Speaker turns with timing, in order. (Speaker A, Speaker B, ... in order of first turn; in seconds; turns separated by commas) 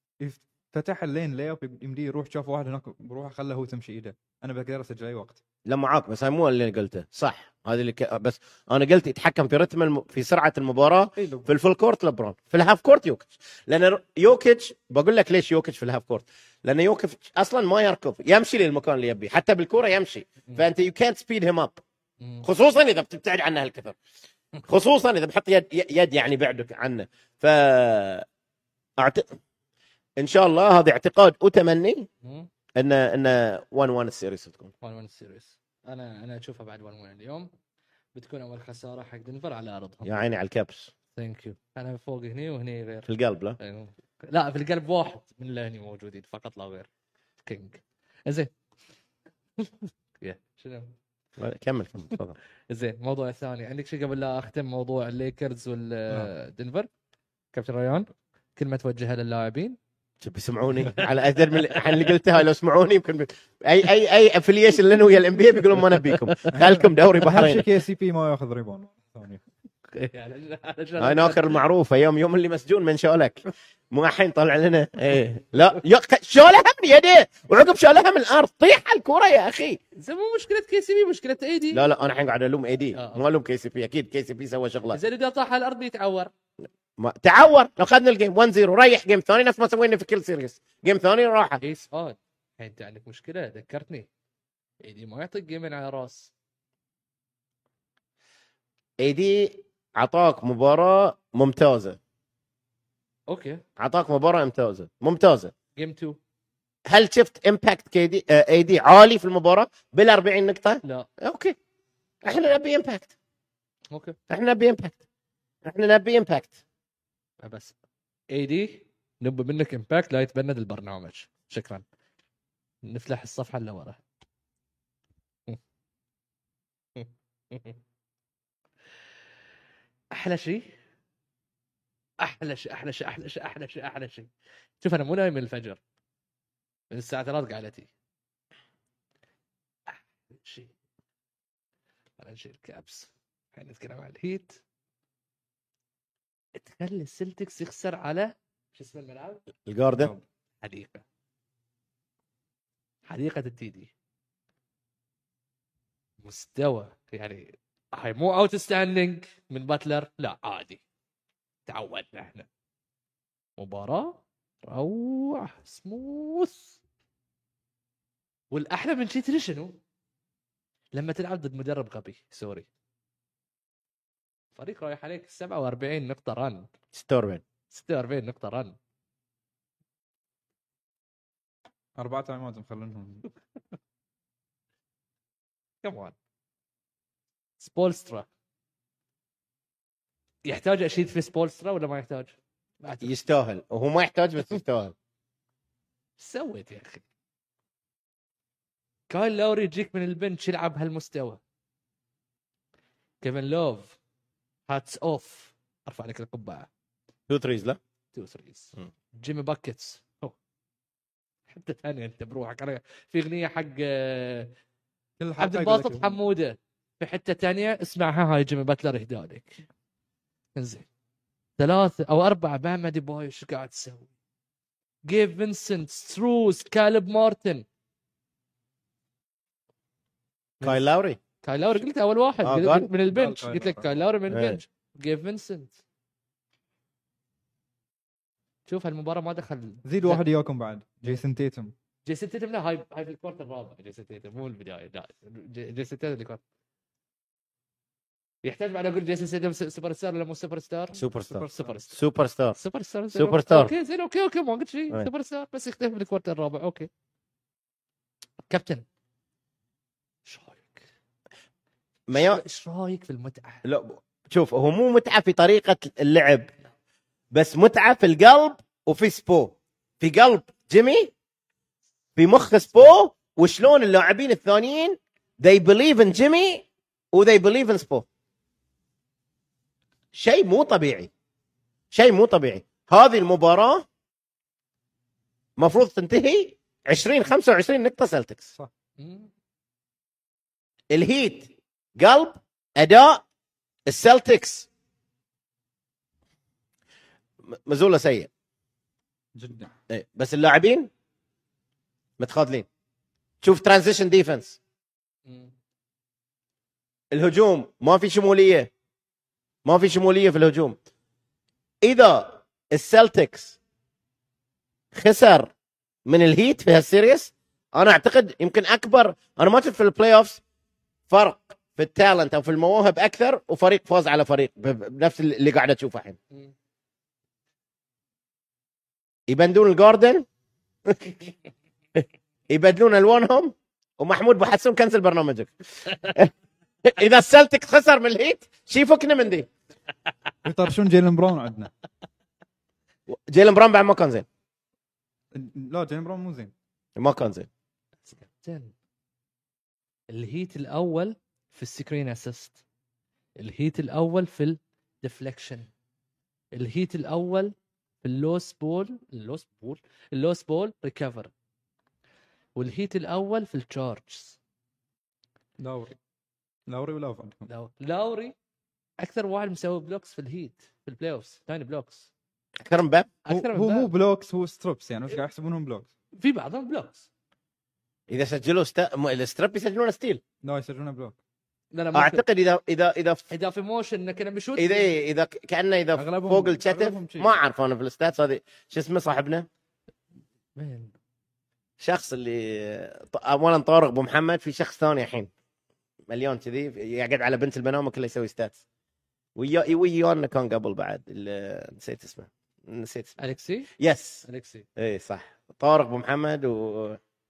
Speaker A: 0.2-5.4, Speaker B: 5.7-21.8, Speaker A: 11.2-11.5, Speaker B: 22.4-23.9, Speaker B: 24.7-28.2, Speaker B: 29.0-29.3, Speaker B: 30.2-32.1, Speaker C: 32.2-32.5, Speaker B: 32.8-34.7, Speaker C: 34.8-37.5, Speaker C: 38.1-40.1, Speaker B: 40.0-40.9, Speaker C: 41.1-46.9, Speaker B: 43.1-43.6, Speaker C: 47.4-48.5, Speaker C: 49.6-50.9, Speaker B: 51.4-52.3, Speaker C: 52.7-56.9, Speaker C: 57.5-59.8, Speaker B: 60.2-67.7, Speaker C: 60.9-62.0, Speaker C: 66.2-66.6, Speaker A: 66.6-69.4, Speaker C: 69.9-71.6, Speaker B: 71.0-79.8, Speaker C: 80.0-81.8, Speaker B: 81.7-85.0, Speaker C: 82.9-83.2, Speaker C: 84.9-86.3, Speaker B: 87.0-91.6, Speaker C: 91.6-94.1, Speaker C: 94.8-96.3, Speaker B: 99.0-102.0, Speaker C: 103.3-103.6, Speaker B: 103.8-105.5, Speaker C: 105.8-106.2, Speaker B: 106.8-111.5, Speaker C: 110.8-111.1, Speaker B: 112.2-113.1, Speaker B: 114.3-115.0, Speaker B: 115.6-116.5, Speaker C: 117.4-117.7, Speaker C: 118.3-121.8, Speaker C: 122.8-124.0, Speaker C: 127.0-127.8, Speaker C: 130.1-130.7, Speaker C: 132.2-135.8, Speaker C: 136.9-137.9, Speaker C: 139.9-140.7, Speaker C: 142.2-144.6, Speaker C: 146.6-149.4, Speaker B: 149.7-150.1, Speaker A: 150.0-150.2, Speaker C: 150.6-151.0, Speaker C: 153.1-153.9, Speaker C: 156.2-160.8, Speaker C: 161.7-162.5, Speaker C: 163.6-166.8, Speaker C: 168.5-169.8, Speaker C: 170.9-172.7, Speaker C: 174.6-176.7, Speaker B: 176.9-177.4, Speaker C: 177.7-178.8, Speaker A: 182.0-183.2, Speaker C: 185.8-186.1, Speaker C: 187.6-188.3, Speaker C: 190.4-193.1, Speaker B: 193.0-194.9, Speaker C: 196.2-197.0, Speaker C: 199.1-201.4, Speaker C: 203.2-204.0, Speaker C: 204.7-206.7, Speaker B: 207.3-207.8, Speaker C: 208.1-210.3, Speaker C: 211.5-214.5, Speaker A: 215.2-216.2, Speaker C: 215.4-219.6, Speaker C: 220.6-220.8, Speaker C: 221.6-224.1, Speaker C: 225.1-227.6, Speaker B: 230.6-231.2, Speaker C: 231.4-235.8, Speaker B: 232.4-232.9, Speaker A: 233.1-233.8, Speaker B: 234.3-234.6, Speaker C: 238.7-240.2, Speaker A: 239.8-241.7, Speaker C: 242.0-246.4, Speaker C: 248.4-252.0, Speaker B: 250.9-252.6, Speaker C: 252.6-256.9, Speaker B: 253.1-253.7, Speaker C: 258.5-258.8, Speaker C: 260.2-260.9, Speaker B: 262.1-262.4, Speaker C: 262.1-263.6, Speaker B: 263.6-266.5, Speaker B: 267.3-271.1, Speaker B: 272.1-278.1, Speaker B: 280.1-281.1, Speaker B: 281.9-283.9, Speaker B: 285.6-288.5, Speaker C: 289.0-289.3, Speaker B: 290.9-293.2, Speaker B: 293.9-294.7, Speaker B: 297.5-298.3, Speaker A: 299.3-299.7, Speaker B: 299.9-300.9, Speaker B: 302.2-302.6, Speaker B: 303.4-304.6, Speaker C: 305.2-305.5, Speaker B: 307.1-308.7, Speaker B: 309.6-310.8, Speaker B: 311.8-313.6, Speaker B: 314.9-315.5, Speaker B: 316.1-320.4, Speaker B: 321.1-326.2, Speaker B: 329.3-330.2, Speaker B: 330.9-331.2, Speaker B: 332.0-336.3, Speaker B: 336.8-339.5, Speaker A: 340.4-341.7, Speaker B: 343.1-344.2, Speaker A: 345.3-346.5, Speaker B: 346.9-347.5, Speaker C: 348.0-348.7, Speaker C: 350.1-352.6, Speaker C: 353.4-355.7, Speaker C: 356.5-361.3, Speaker C: 362.6-364.4, Speaker A: 365.6-365.9, Speaker A: 366.7-367.5, Speaker C: 367.5-368.3, Speaker C: 369.0-372.1, Speaker B: 372.6-373.1, Speaker C: 373.2-373.9, Speaker A: 373.3-375.9, Speaker C: 376.1-377.1, Speaker B: 378.1-380.2, Speaker A: 380.4-381.2, Speaker C: 381.7-382.2, Speaker B: 381.9-383.2, Speaker C: 383.3-384.9, Speaker B: 384.6-389.5, Speaker A: 386.0-387.4, Speaker C: 390.6-390.9, Speaker B: 391.8-395.3, Speaker B: 396.1-398.6, Speaker B: 399.4-403.2, Speaker C: 403.2-403.7, Speaker B: 403.8-404.2, Speaker C: 404.2-404.6, Speaker B: 404.8-407.0